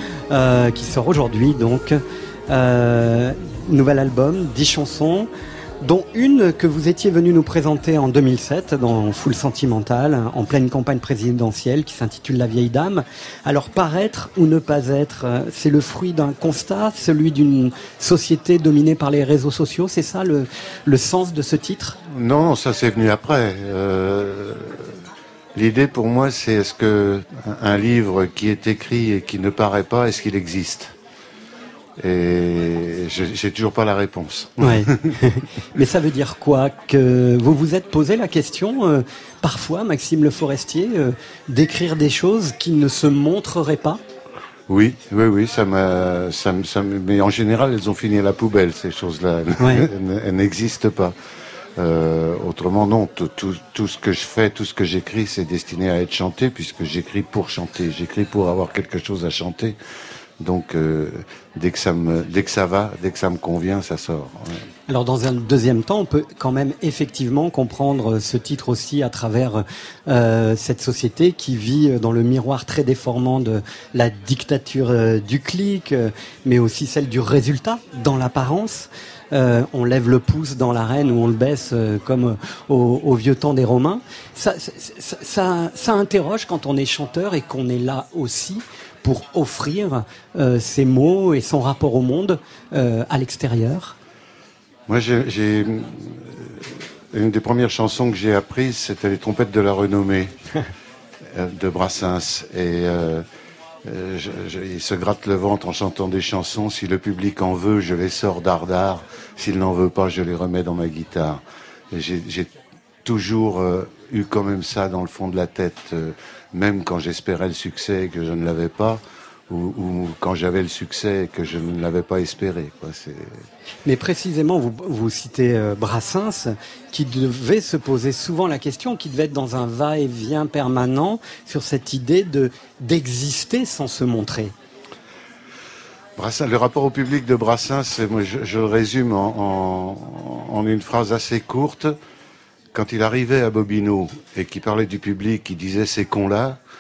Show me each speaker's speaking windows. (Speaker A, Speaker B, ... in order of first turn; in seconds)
Speaker A: 0.3-5.3, 5.8-22.0, 34.6-44.0, 49.6-49.9, 64.9-94.0, 123.8-134.5
Speaker B: 22.1-25.0, 25.6-30.9, 32.0-35.1, 44.7-51.1, 51.8-59.8, 60.4-64.6, 94.9-100.4, 101.3-103.3, 103.8-112.5, 113.0-123.4, 136.2-141.9, 142.7-146.6